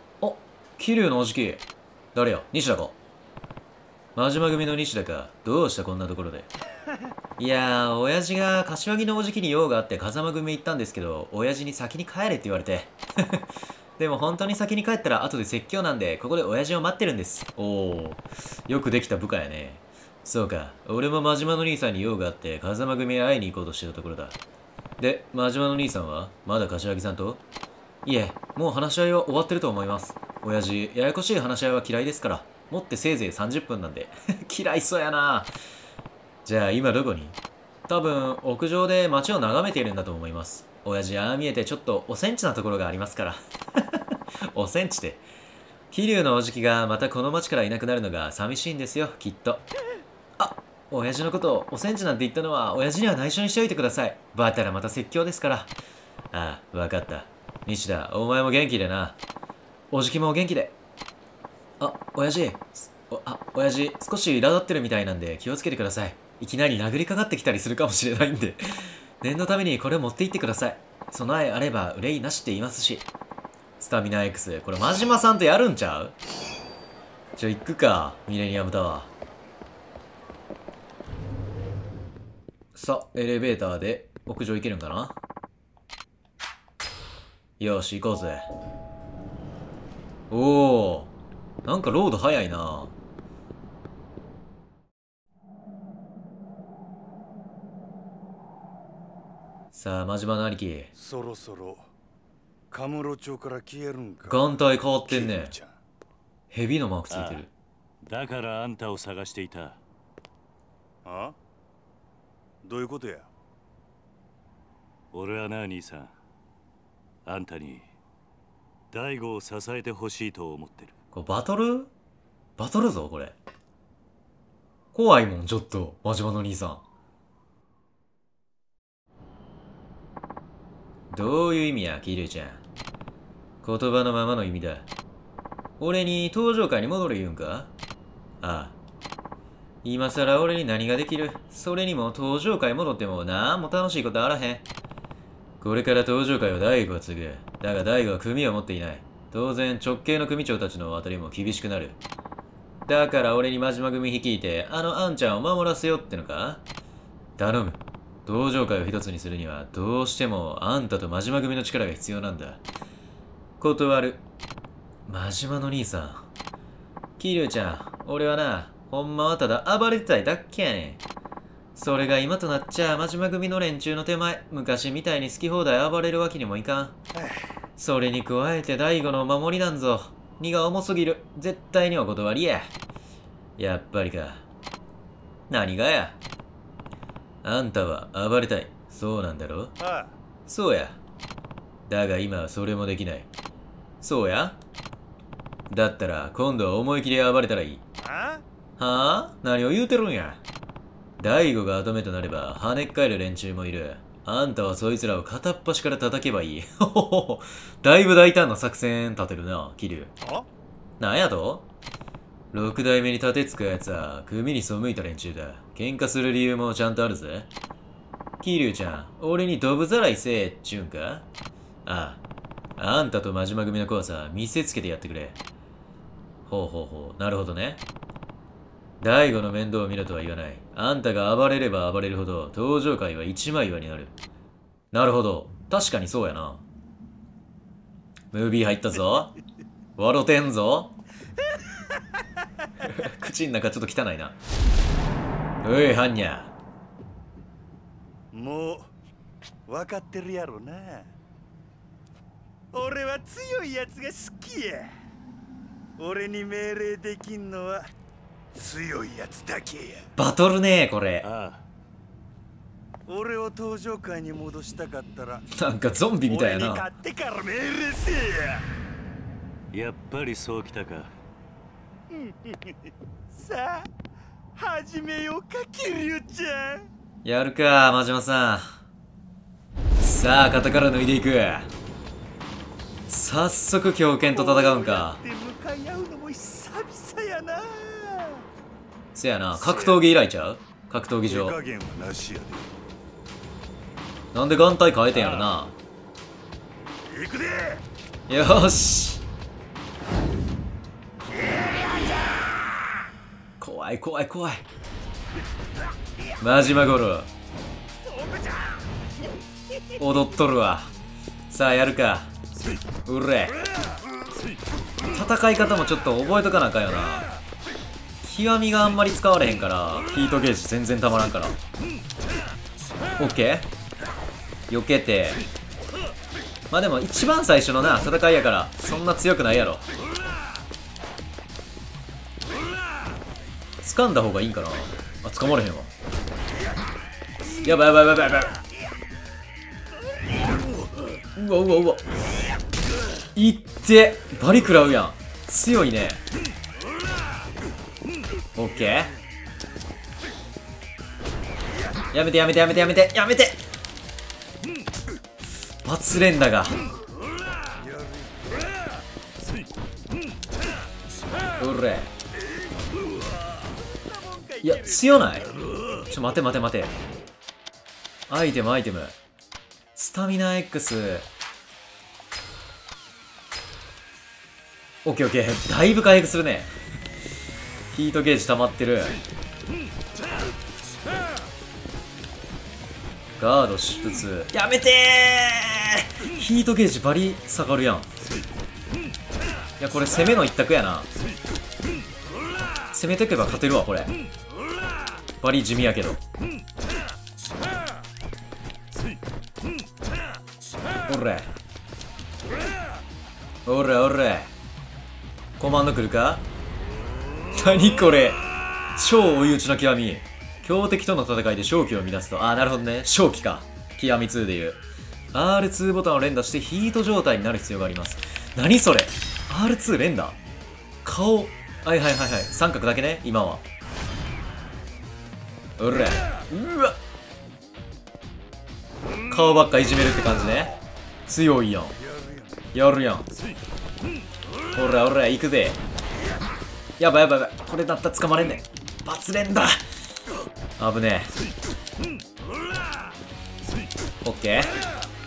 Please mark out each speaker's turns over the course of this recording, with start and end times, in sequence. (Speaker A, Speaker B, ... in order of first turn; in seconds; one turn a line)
Speaker A: 0.2-3.0
Speaker A: 4.1-6.5
Speaker A: 7.4-13.4
Speaker A: 14.0-24.4
Speaker A: 25.0-27.4
Speaker A: 28.0-35.5
Speaker A: 36.4-43.4
Speaker A: 43.9-45.2
Speaker A: 45.9-49.6
Speaker A: 50.4-55.7
Speaker A: 56.3-59.2
Speaker A: 59.9-60.8
Speaker A: 61.8-68.6
Speaker A: 69.2-73.1
Speaker A: 73.8-76.1
Speaker A: 77.3-79.1
Speaker A: 82.7-85.2
Speaker A: 87.6-88.5
Speaker A: 90.3-92.9
Speaker A: 99.7-100.9
Speaker B: 100.9-101.9
Speaker B: 102.7-104.5
Speaker A: 104.3-105.5
Speaker B: 105.0-105.8
Speaker A: 106.5-107.5
Speaker C: 107.1-107.5
Speaker C: 108.0-109.8
Speaker B: 111.0-111.3
Speaker B: 112.6-113.3
Speaker C: 115.1-116.2
Speaker C: 117.2-117.9
Speaker C: 118.9-120.9
Speaker A: 121.1-121.9
Speaker A: 122.6-123.4
Speaker A: 124.9-126.8
Speaker A: 131.1-132.6
Speaker A: 133.6-134.9
Speaker A: 135.8-137.7
Speaker A: 138.4-138.8
Speaker A: 139.8-144.7
Speaker A: 145.6-152.0
Speaker A: 152.8-156.6
Speaker A: 157.4-162.6
Speaker A: 163.6-164.2
Speaker A: 165.1-166.3
Speaker A: 167.2-171.0
Speaker A: 171.7-177.0
Speaker A: 177.8-182.7
Speaker A: 183.6-184.4
Speaker A: 185.5-186.2
Speaker A: 187.4-189.7
Speaker B: 189.8-190.2
Speaker A: 190.5-191.0
Speaker A: 191.9-193.3
Speaker A: 194.0-194.6
Speaker A: 195.7-197.8
Speaker B: 198.0-198.4
Speaker A: 198.8-200.4
Speaker A: 201.2-210.1
Speaker B: 210.2-210.5
Speaker A: 211.0-211.7
Speaker A: 212.5-217.5
Speaker A: 218.4-221.3
Speaker A: 221.8-222.2
Speaker A: 222.8-225.4
Speaker A: 226.4-227.8
Speaker A: 229.0-234.1
Speaker A: 234.9-236.6
Speaker A: 238.3-239.3
Speaker A: 239.9-240.9
Speaker A: 242.8-244.4
Speaker A: 245.6-246.5
Speaker B: 248.3-248.9
Speaker B: 249.7-251.1
Speaker B: 252.7-254.9
Speaker B: 256.0-257.9
Speaker B: 258.5-260.1
Speaker A: 260.1-261.3
Speaker C: 261.2-261.6
Speaker B: 263.1-265.5
Speaker A: 265.5-266.9
Speaker B: 266.3-268.7
Speaker C: 269.7-271.1
Speaker B: 272.1-273.9
Speaker B: 274.5-276.9
Speaker A: 277.2-278.8
Speaker A: 280.0-281.7
Speaker A: 283.1-285.2
Speaker B: 284.2-288.4
Speaker A: 289.1-291.6
Speaker B: 289.5-290.0
Speaker B: 291.2-292.7
Speaker A: 294.3-295.7
Speaker B: 295.1-295.5
Speaker B: 297.1-297.8
Speaker A: 298.3-299.2
Speaker B: 301.5-302.4
Speaker A: 303.6-304.6
Speaker A: 306.4-307.3
Speaker A: 310.0-310.9
Speaker A: 311.5-312.3
Speaker A: 313.1-313.6
Speaker A: 315.1-317.2
Speaker A: 318.2-321.6
Speaker A: 323.2-323.7
Speaker A: 324.7-325.4
Speaker A: 326.7-329.8
Speaker A: 333.8-335.9
Speaker A: 337.6-338.5
Speaker A: 341.4-342.0
Speaker A: 343.3-346.2
Speaker A: 348.6-349.1
Speaker B: 348.7-349.2
Speaker A: 352.1-353.6
Speaker A: 355.8-356.8
Speaker B: 357.8-358.7
Speaker A: 361.6-362.1
Speaker B: 363.6-365.7
Speaker A: 364.6-366.9
Speaker A: 368.3-369.2
Speaker A: 369.9-371.3
Speaker A: 375.0-376.7
Speaker A: 377.9-379.2
Speaker A: 383.4-388.1
Speaker A: 389.8-391.1
Speaker A: 392.9-394.1
Speaker A: 395.4-396.2
Speaker A: 401.1-401.5
Speaker A: 403.6-404.5
Speaker A: 405.6-406.4
Speaker A: 407.5-414.8
Speaker A: 415.3-420.4
Speaker A: 421.0-423.6
Speaker A: 425.8-427.0
Speaker A: 429.3-430.7
Speaker A: 431.3-431.9
Speaker B: 432.0-432.7
Speaker A: 432.7-433.3
Speaker A: 434.7-435.8
Speaker A: 437.0-439.8
Speaker A: 440.8-441.3
Speaker A: 444.2-444.7